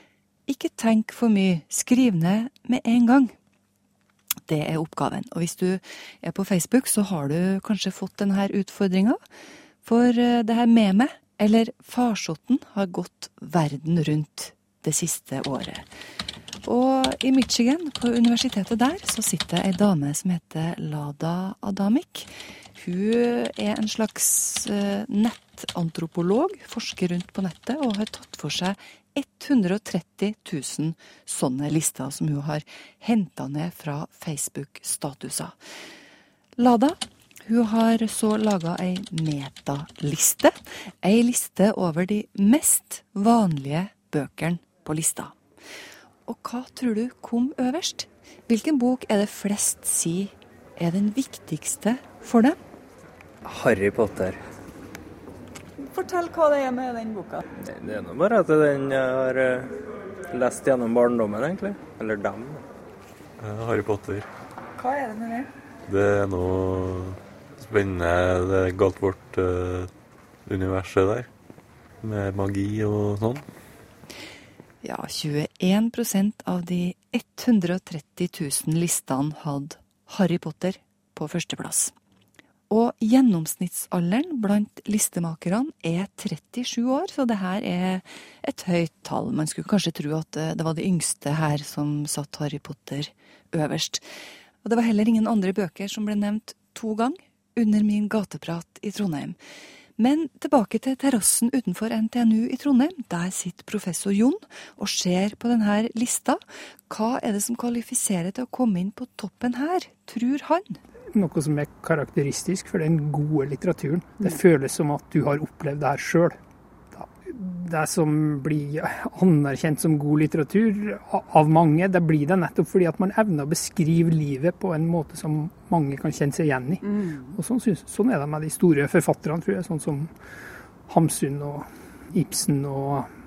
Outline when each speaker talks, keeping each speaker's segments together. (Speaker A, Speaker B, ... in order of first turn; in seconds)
Speaker A: 0.5-3.3, 4.5-9.2, 9.8-15.8, 16.6-35.6, 36.6-45.4, 46.2-52.6, 74.8-81.9, 82.7-94.0, 94.6-99.4, 100.0-110.8
Speaker B: 53.5-54.4, 57.6-59.7, 60.3-62.6
Speaker C: 55.8-57.4, 64.8-65.5, 126.8-127.4
Speaker D: 63.4-64.3, 65.9-69.9, 70.5-71.3, 72.0-73.4
Speaker E: 111.1-116.3, 116.9-130.1, 130.9-133.1